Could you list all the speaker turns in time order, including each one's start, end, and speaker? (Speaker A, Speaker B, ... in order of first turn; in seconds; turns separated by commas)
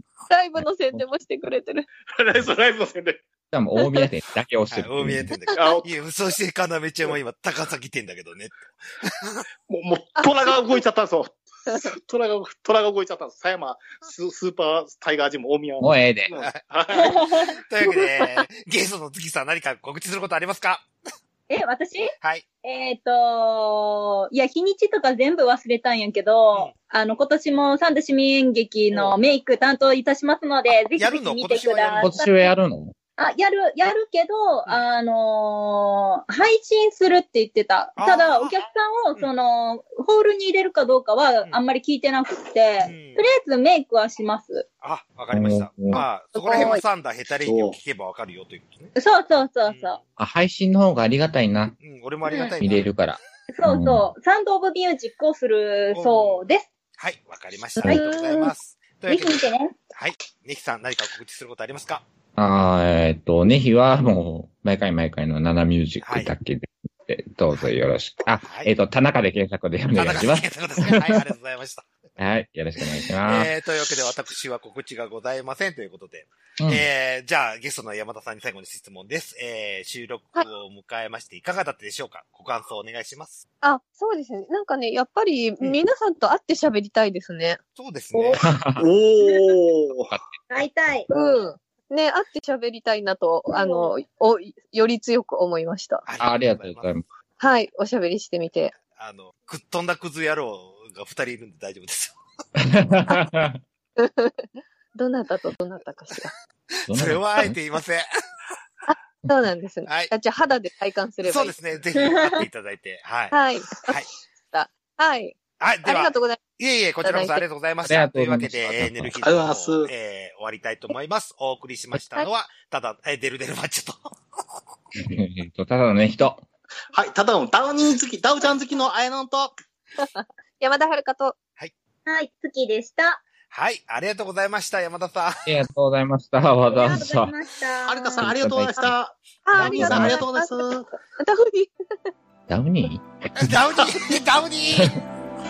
Speaker A: 0.3-1.9, Speaker B: 0.6-1.0, Speaker C: 2.1-3.2, Speaker B: 3.5-5.4, Speaker A: 3.8-4.1, Speaker D: 4.7-9.4, Speaker A: 5.5-5.8, Speaker C: 5.5-5.8, Speaker C: 9.7-17.2, Speaker A: 10.2-10.6, Speaker B: 15.8-16.3, Speaker E: 17.0-17.5, Speaker D: 17.6-20.9, Speaker A: 18.2-18.4, Speaker E: 21.5-22.1, Speaker E: 22.6-32.5, Speaker D: 28.9-29.2, Speaker D: 31.0-32.1, Speaker B: 32.0-32.9, Speaker E: 33.2-44.6, Speaker D: 38.0-38.5, Speaker D: 42.8-43.2, Speaker D: 44.8-48.9, Speaker B: 45.3-46.0, Speaker A: 46.4-46.8, Speaker E: 46.5-46.8, Speaker C: 47.4-47.8, Speaker E: 49.0-50.0, Speaker D: 49.6-50.0, Speaker B: 50.2-51.8, Speaker D: 51.8-52.9, Speaker B: 52.6-54.1, Speaker E: 53.5-56.6, Speaker D: 55.9-56.5, Speaker D: 57.0-62.0, Speaker A: 57.8-58.0, Speaker E: 57.8-58.5, Speaker E: 59.1-59.7, Speaker B: 62.4-70.9, Speaker D: 66.0-66.3, Speaker D: 68.4-68.7, Speaker D: 69.9-71.9, Speaker B: 72.2-73.5, Speaker D: 73.2-83.4, Speaker B: 76.6-76.8, Speaker A: 83.6-87.6, Speaker D: 87.8-88.5, Speaker E: 88.1-88.4, Speaker B: 88.4-88.9, Speaker C: 88.8-90.1, Speaker E: 89.2-89.5, Speaker B: 89.9-90.3, Speaker E: 90.5-91.1, Speaker A: 91.1-96.0, Speaker E: 93.5-93.9, Speaker D: 96.0-96.9, Speaker B: 96.2-97.0, Speaker A: 97.4-98.7, Speaker D: 98.9-102.2, Speaker B: 102.6-103.6, Speaker A: 104.0-106.3, Speaker D: 106.8-108.0, Speaker B: 106.9-107.5, Speaker A: 108.9-111.8, Speaker D: 109.8-110.1, Speaker D: 111.2-113.3, Speaker E: 112.0-112.5, Speaker A: 113.3-114.0, Speaker A: 114.5-116.4, Speaker D: 115.6-124.0, Speaker A: 117.0-117.4, Speaker B: 117.8-119.2, Speaker C: 119.2-119.9, Speaker B: 125.0-126.4, Speaker C: 126.9-129.5, Speaker A: 130.0-131.3, Speaker E: 132.1-133.2, Speaker D: 133.5-135.4, Speaker B: 135.4-137.3, Speaker E: 136.7-138.1, Speaker C: 137.8-141.0, Speaker B: 138.2-138.9, Speaker A: 139.5-141.7, Speaker B: 139.6-140.2, Speaker B: 142.5-143.5, Speaker D: 143.3-145.0